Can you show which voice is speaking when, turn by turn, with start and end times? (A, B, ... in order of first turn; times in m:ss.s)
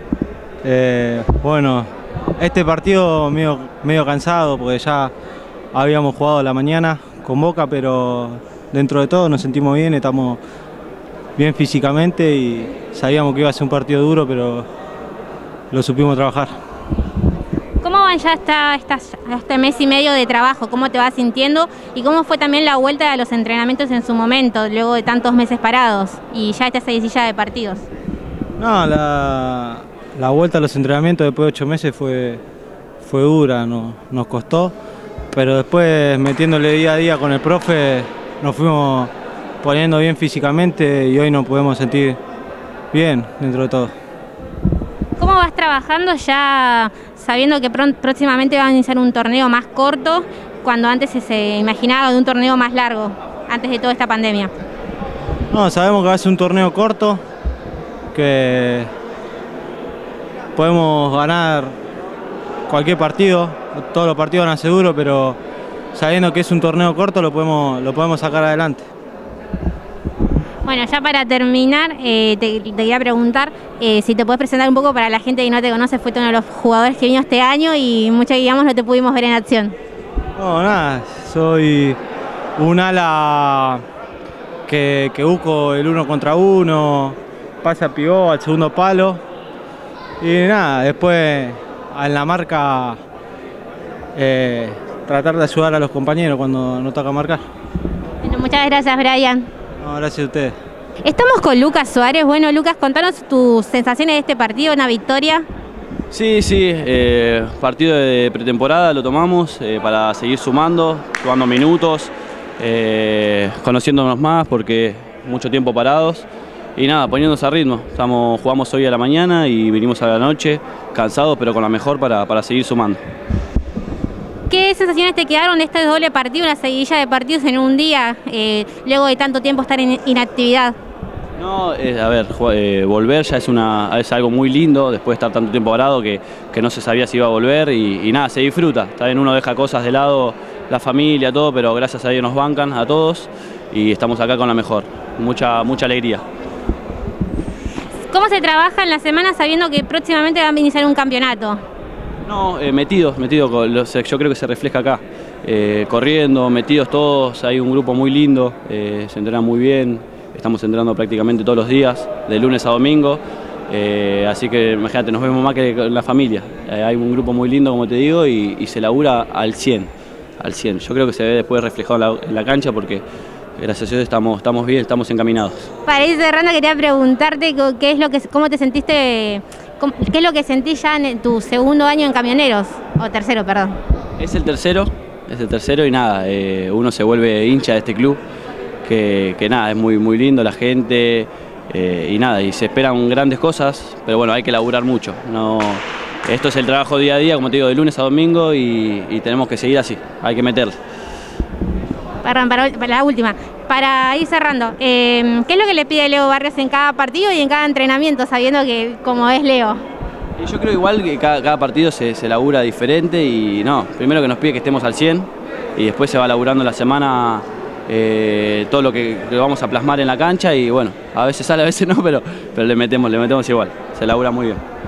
0:00.6-0:05.1 A
0:05.7-0:10.4 A
0:11.4-0:14.7 A
0:15.7-0:16.5 A
0:17.8-0:27.8 B
0:28.6-0:32.4 A
0:33.0-0:34.8 A
0:35.3-0:39.1 A
0:39.6-0:42.2 A
0:42.9-0:43.9 A
0:45.2-0:54.5 B
0:55.5-0:57.2 A
0:58.1-0:58.9 A
1:00.6-1:01.8 A
1:02.7-1:05.4 A
1:05.9-1:08.9 A
1:10.6-1:19.8 B
1:20.4-1:22.0 A
1:22.6-1:23.8 A
1:24.7-1:29.2 A
1:30.2-1:33.0 A
1:34.2-1:37.4 A
1:38.2-1:39.5 B
1:39.8-1:40.6 A
1:41.0-1:45.4 B
1:46.1-2:03.0 C
2:04.5-2:10.8 B
2:11.4-2:26.2 C
2:28.1-2:31.6 B
2:32.2-2:53.0 C
2:53.6-2:55.7 C
2:55.9-3:03.8 B
3:04.2-3:08.2 C
3:08.8-3:20.8 C
3:22.2-3:29.8 B
3:30.4-3:44.6 C